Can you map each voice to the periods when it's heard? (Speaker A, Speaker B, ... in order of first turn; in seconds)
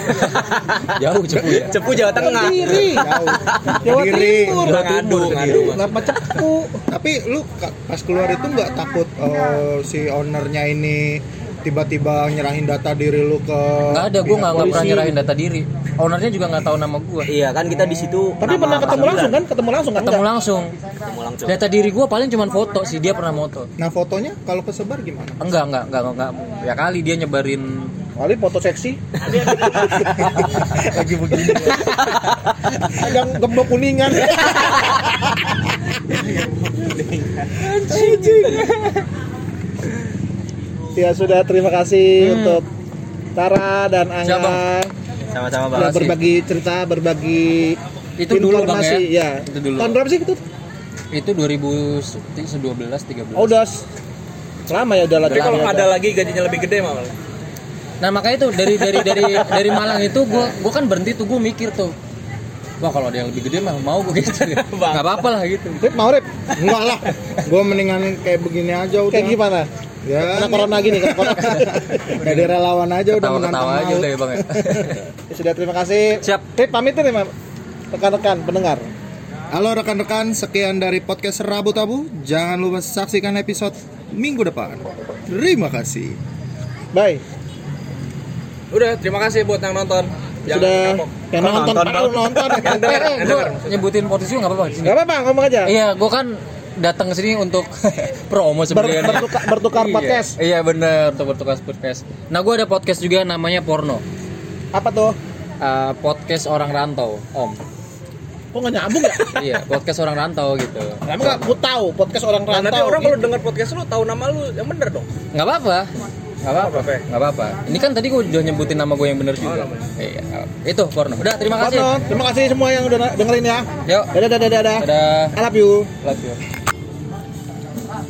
Speaker A: 0.3-0.9, 1.4-3.8, 17.3-19.4, 21.1-21.6, 45.3-45.9, 91.4-92.3
Speaker B: 0.9-1.8, 4.6-5.8, 13.9-17.3, 20.0-20.7, 21.5-23.7, 25.4-27.9, 31.3-31.9, 37.7-38.5, 42.2-42.6, 44.2-44.6, 45.8-46.1, 48.2-50.0, 51.1-53.5, 55.3-55.7, 58.0-61.9, 62.8-65.8, 71.4-72.5, 73.1-75.0, 92.7-95.0, 95.6-104.0, 105.6-107.6, 109.2-111.2, 115.3-115.9, 116.4-121.9, 123.8-124.1, 124.8-125.3, 126.0-126.4
Speaker C: 2.1-3.1, 3.8-6.8, 14.3-15.2, 18.4-20.2, 28.1-29.9, 32.8-34.8, 40.9-42.6, 43.4-44.9, 45.7-47.8, 48.3-50.4, 53.3-53.8, 54.7-55.9, 65.8-66.3, 69.1-69.7, 70.3-72.0, 75.3-77.3, 77.9-78.9, 86.9-87.2, 90.5-93.1, 94.8-95.7, 98.7-100.3, 104.7-105.2, 108.5-109.5, 111.1-113.2, 121.6-126.0
Speaker D: 2.7-4.7, 6.9-14.8, 17.7-18.3, 23.8-25.4, 30.3-31.9, 37.9-38.6, 66.5-69.4, 70.0-75.0, 79.5-86.2
Speaker E: 4.7-6.4, 29.3-30.0, 36.1-38.7, 55.3-57.1, 59.0-59.9, 64.5-65.3, 88.7-93.8, 112.5-115.1, 116.5-117.0, 119.4-119.9